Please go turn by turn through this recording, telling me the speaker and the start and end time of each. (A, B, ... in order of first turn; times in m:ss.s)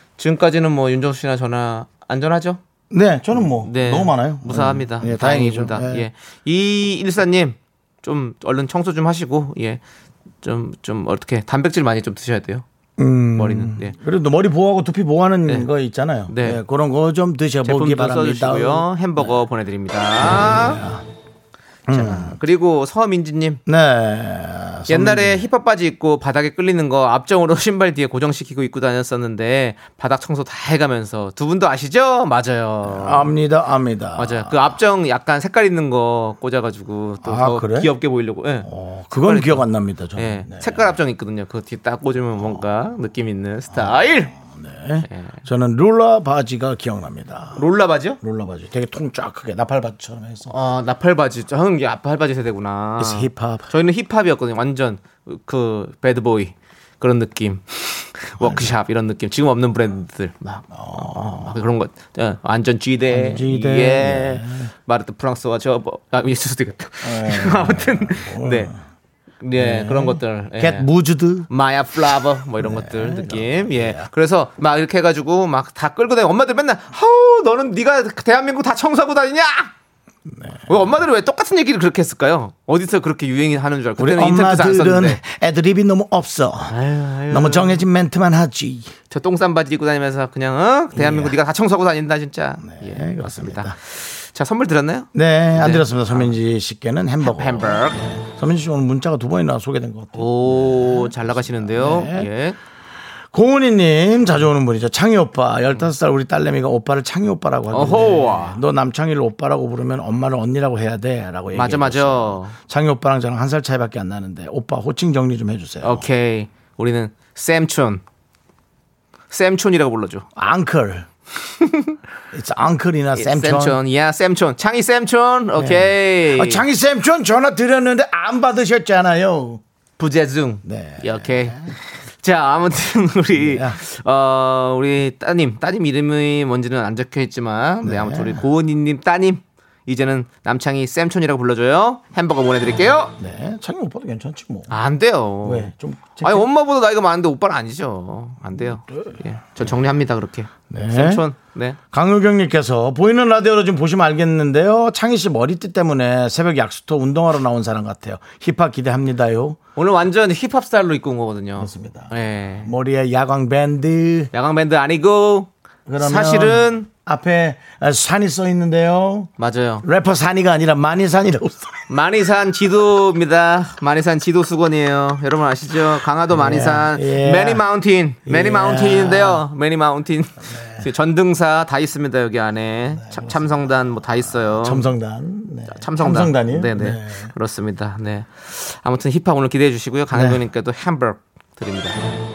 0:00.2-0:02.6 A
0:02.9-0:06.0 B
0:03.6-0:09.8 A
0:10.4-0:12.6 A
0:13.0-0:19.4 B
0:13.4-0:13.9 A
0:16.3-0:16.6 A
0:17.6-0:20.8 A
0:20.2-0:21.0 B
0:21.9-0:22.4 B
0:21.9-0:23.6 A
0:23.6-0:25.4 B
0:24.9-0:33.3 A
0:32.8-0:34.7 B
0:34.2-0:44.3 A
0:37.2-0:37.9 B
0:38.6-0:40.9 B
0:43.7-0:47.6 B
0:45.1-0:45.4 A
0:47.5-0:48.2 A
0:48.2-0:50.5 B
0:50.5-1:08.7 A
0:53.0-0:53.7 B
0:58.4-0:58.7 B
1:00.7-1:01.6 B
1:03.1-1:04.7 B
1:07.0-1:08.8 B
1:09.4-1:10.9 A
1:09.6-1:11.5 B
1:11.5-1:19.7 A
1:12.6-1:14.1 B
1:20.3-1:20.7 B
1:20.7-1:25.2 A
1:24.0-1:26.8 B
1:26.7-1:27.8 A
1:27.3-1:28.9 B
1:29.1-1:36.3 A
1:30.9-1:31.4 B
1:32.6-1:33.8 B
1:35.1-1:42.3 B
1:37.2-1:38.0 A
1:40.1-1:42.6 A
1:43.3-1:56.0 B
1:47.7-1:48.6 A
1:51.5-1:52.5 A
1:55.8-1:58.0 A
1:59.3-2:00.2 A
2:00.4-2:01.1 B
2:01.6-2:01.9 A
2:02.3-2:03.8 B
2:03.1-2:06.6 A
2:05.6-2:09.6 B
2:10.0-2:23.1 A
2:10.6-2:11.7 B
2:13.3-2:13.8 B
2:17.8-2:18.4 B
2:23.2-2:24.7 B
2:24.7-2:25.7 A
2:25.4-2:26.5 B
2:26.2-2:31.8 A
2:28.9-2:29.7 B
2:30.7-2:31.2 B
2:31.9-2:39.6 B
2:39.8-2:42.7 A
2:41.6-2:44.3 B
2:44.3-2:46.9 A
2:45.8-2:49.3 B
2:49.4-2:49.8 A
2:49.8-2:51.9 B
2:51.9-3:04.9 A
2:56.3-2:57.6 B
2:58.2-2:59.4 B
3:00.5-3:00.8 B
3:03.0-3:03.7 B
3:04.2-3:07.3 B
3:05.7-3:12.0 A
3:10.1-3:10.4 B